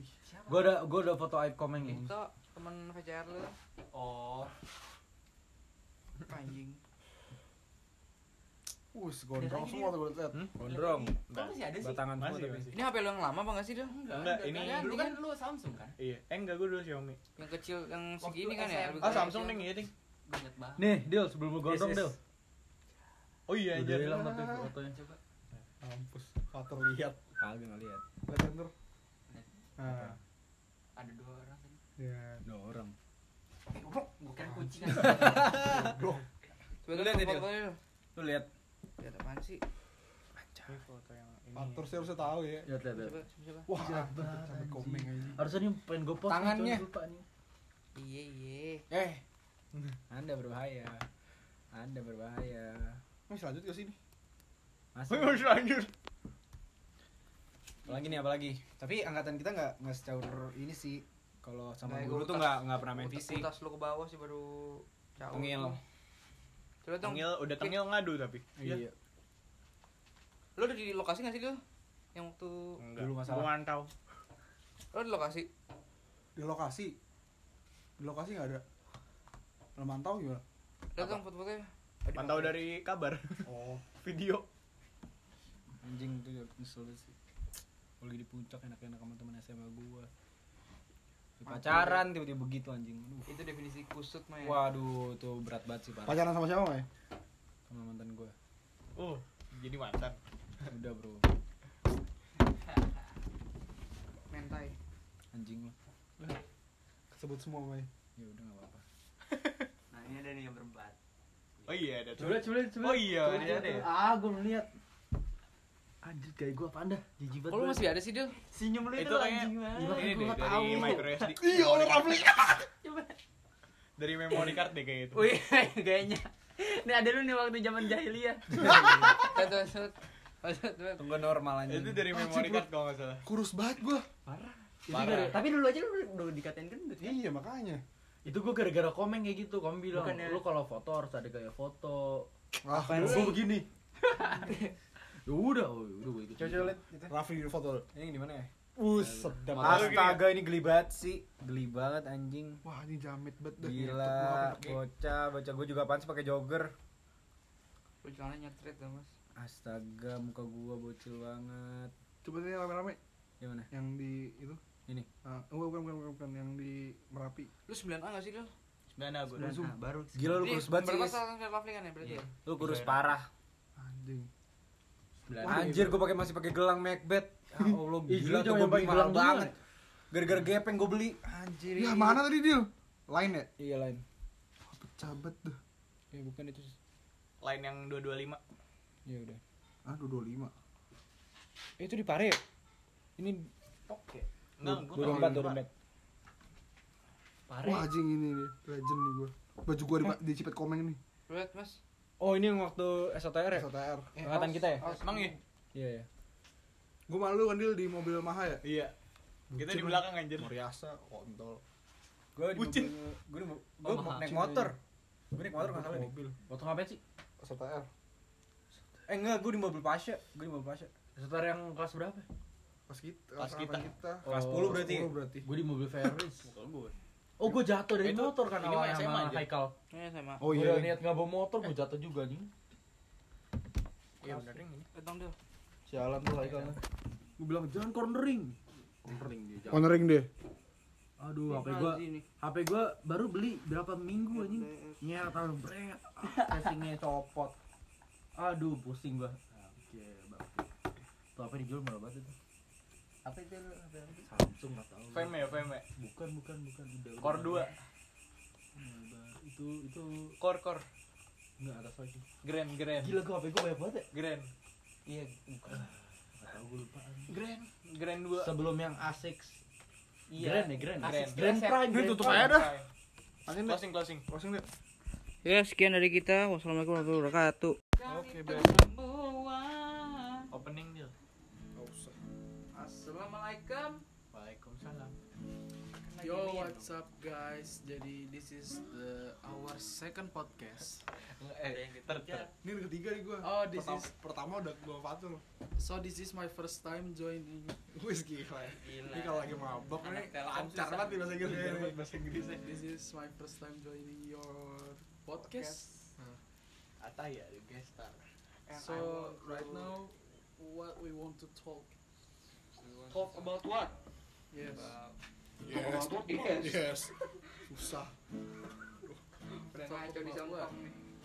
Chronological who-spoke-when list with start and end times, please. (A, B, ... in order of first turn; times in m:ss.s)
0:00.2-0:00.9 A
0:00.5-0:02.1 B
0:01.8-0:03.5 C
0:03.9-0:04.5 A
0:06.3-0:06.8 C
0:08.9-0:10.4 D
0:09.3-0:12.0 A
0:10.3-0:11.1 E
0:11.3-0:12.8 F
0:11.8-0:12.7 E
0:12.7-0:13.9 C
0:13.9-0:16.0 A
0:14.1-0:14.9 F
0:14.5-0:15.2 C
0:16.0-0:17.2 F
0:17.4-0:19.5 C
0:18.2-0:19.7 A
0:19.0-0:19.9 F
0:20.2-0:20.9 A
0:20.8-0:22.2 B
0:21.6-0:22.1 E
0:23.5-0:24.2 F
0:23.7-0:25.0 B
0:24.0-0:24.7 D
0:24.9-0:25.2 A
0:25.8-0:27.2 D
0:27.4-0:28.0 E
0:28.2-0:28.7 D
0:29.8-0:30.2 D
0:29.9-0:30.2 E
0:31.0-0:31.8 A
0:32.0-0:32.4 D
0:32.4-0:32.9 E
0:33.7-0:35.8 A
0:34.4-0:36.2 D
0:35.1-0:35.9 E
0:36.8-0:37.8 C
0:36.9-0:37.5 E
0:38.1-0:38.5 E
0:39.0-0:39.6 C
0:40.4-0:40.8 E
0:40.6-0:42.2 F
0:41.5-0:42.7 D
0:42.6-0:43.2 B
0:42.9-0:43.7 C
0:43.7-0:45.5 D
0:43.7-0:47.2 B
0:46.3-0:46.8 E
0:47.9-0:48.8 C
0:48.9-0:49.2 E
0:50.1-0:51.0 E
0:51.7-0:53.0 E
0:53.3-0:54.0 D
0:54.9-0:55.5 E
0:55.1-0:55.9 F
0:57.8-1:03.5 E
1:01.8-1:05.8 C
1:05.3-1:05.8 E
1:06.8-1:07.8 C
1:07.0-1:08.7 F
1:08.6-1:08.9 E
1:10.6-1:11.6 C
1:12.1-1:12.8 C
1:12.8-1:13.9 F
1:13.0-1:13.5 E
1:14.9-1:15.5 C
1:16.4-1:16.9 D
1:18.0-1:18.6 D
1:19.7-1:20.4 D
1:21.0-1:22.6 C
1:22.1-1:24.4 F
1:23.4-1:23.8 D
1:25.8-1:27.1 E
1:28.0-1:30.1 E
1:31.4-1:33.3 E
1:31.4-1:32.0 D
1:33.3-1:34.6 C
1:34.4-1:36.3 E
1:36.0-1:36.9 D
1:37.7-1:38.3 E
1:39.0-1:40.2 F
1:40.7-1:41.3 E
1:44.3-1:44.7 C
1:45.3-1:45.7 E
1:47.1-1:47.9 D
1:48.2-1:48.8 E
1:49.3-1:49.6 F
1:49.9-1:51.0 A
1:51.6-1:51.9 A
1:51.6-1:53.9 F
1:52.1-1:54.7 B
1:56.0-1:58.0 B
1:57.5-1:58.4 C
1:58.5-2:01.3 A
1:59.0-2:02.1 F
1:59.7-2:01.2 B
2:01.3-2:02.7 D
2:02.6-2:03.2 A
2:04.0-2:05.2 F
2:04.3-2:09.5 A
2:08.6-2:09.1 D
2:09.1-2:11.0 C
2:11.0-2:12.1 E
2:11.6-2:13.2 F
2:12.1-2:12.7 D
2:13.2-2:14.1 D
2:14.5-2:15.4 B
2:14.9-2:17.2 A
2:14.9-2:15.3 F
2:17.0-2:17.8 D
2:18.2-2:22.3 B
2:19.9-2:20.4 A
2:22.6-2:23.4 D
2:22.8-2:23.4 C
2:22.9-2:23.6 B
2:24.1-2:24.7 A
2:25.2-2:26.8 B
2:26.4-2:27.1 E
2:27.1-2:27.8 D
2:27.9-2:28.5 E
2:28.8-2:29.9 D
2:28.9-2:30.0 B
2:29.5-2:30.2 F
2:29.6-2:32.6 E
2:32.6-2:34.8 D
2:33.6-2:36.7 E
2:38.0-2:39.1 C
2:39.3-2:41.9 E
2:42.2-2:43.0 D
2:43.4-2:43.7 E
2:43.7-2:44.6 D
2:45.2-2:47.5 D
2:47.7-2:48.5 C
2:48.9-2:49.6 F
2:49.3-2:50.5 A
2:49.4-2:49.7 D
2:50.1-2:51.2 E
2:50.4-2:52.3 C
2:52.4-2:53.3 E
2:53.8-2:54.3 D
2:55.3-2:56.0 B
2:55.4-2:59.5 E
2:55.4-2:55.8 D
2:58.1-2:59.5 B
3:00.1-3:02.2 E
3:01.7-3:03.5 D
3:03.6-3:04.0 E
3:04.6-3:05.6 D
3:06.1-3:06.8 E
3:07.4-3:08.4 F
3:09.0-3:09.4 E
3:09.8-3:10.5 D
3:11.8-3:12.4 E
3:13.2-3:13.5 E
3:13.9-3:14.2 B
3:14.6-3:15.6 F
3:14.7-3:15.4 D
3:14.9-3:15.7 E
3:14.9-3:15.4 B
3:17.5-3:17.8 F
3:17.6-3:21.0 D
3:21.3-3:21.8 C
3:22.2-3:24.8 E
3:23.5-3:24.6 D
3:24.8-3:25.4 C
3:24.9-3:25.4 F
3:25.7-3:26.1 E
3:27.1-3:28.6 D
3:28.6-3:28.9 F
3:29.5-3:31.6 D
3:29.5-3:30.6 F
3:32.4-3:34.8 E
3:32.5-3:33.0 F
3:33.9-3:34.3 A
3:33.9-3:34.7 D
3:35.3-3:36.1 E
3:35.5-3:36.4 D
3:36.5-3:37.0 B
3:37.4-3:37.9 D
3:39.1-3:40.9 E
3:41.1-3:42.2 B
3:42.9-3:45.5 D
3:43.4-3:43.9 F
3:44.2-3:46.6 B
3:44.2-3:45.1 E
3:46.5-3:46.9 F
3:47.4-3:49.7 B
3:48.0-3:49.5 F
3:49.9-3:50.4 C
3:50.4-3:51.0 D
3:50.4-3:52.5 B
3:54.2-3:54.9 F
3:54.2-3:54.5 B
3:54.9-3:55.4 C
3:55.9-3:56.8 B
3:56.3-3:56.8 F
3:57.4-3:59.9 B
3:59.6-4:00.3 D
4:01.2-4:07.5 B
4:01.5-4:02.2 C
4:04.3-4:05.0 C
4:06.2-4:06.8 A
4:08.4-4:10.7 B
4:11.3-4:12.3 B
4:13.2-4:14.3 A
4:14.2-4:17.7 B
4:15.1-4:15.8 F
4:17.2-4:17.7 F
4:18.7-4:20.3 B
4:20.4-4:20.8 F
4:21.6-4:22.2 B
4:22.4-4:23.2 F
4:23.0-4:24.1 B
4:24.1-4:24.5 F
4:25.0-4:25.9 A
4:25.7-4:27.4 B
4:27.3-4:28.5 F
4:28.4-4:29.6 B
4:30.3-4:32.1 A
4:30.3-4:32.6 B
4:31.0-4:31.5 F
4:31.9-4:32.8 D
4:32.2-4:32.9 F
4:33.4-4:34.7 D
4:33.6-4:34.2 F
4:35.4-4:40.5 C
4:38.0-4:38.8 D
4:40.5-4:41.1 F
4:41.7-4:42.2 D
4:42.7-4:44.0 C
4:44.3-4:45.1 F
4:46.1-4:46.8 C
4:46.2-4:51.0 G
4:51.2-4:52.5 F
4:51.6-4:52.5 A
4:52.6-4:55.4 D
4:53.4-4:54.1 G
4:55.8-4:57.8 G
4:57.9-5:02.0 D
4:58.7-5:01.5 A
5:01.4-5:02.7 F
5:02.3-5:05.8 G
5:05.4-5:06.0 C
5:07.0-5:08.2 F
5:08.7-5:09.9 C
5:08.7-5:11.9 G
5:12.9-5:13.4 A
5:13.1-5:13.9 C
5:14.5-5:15.0 G
5:15.6-5:17.2 F
5:15.7-5:16.9 C
5:17.6-5:18.2 D
5:19.5-5:21.0 C
5:19.7-5:20.7 G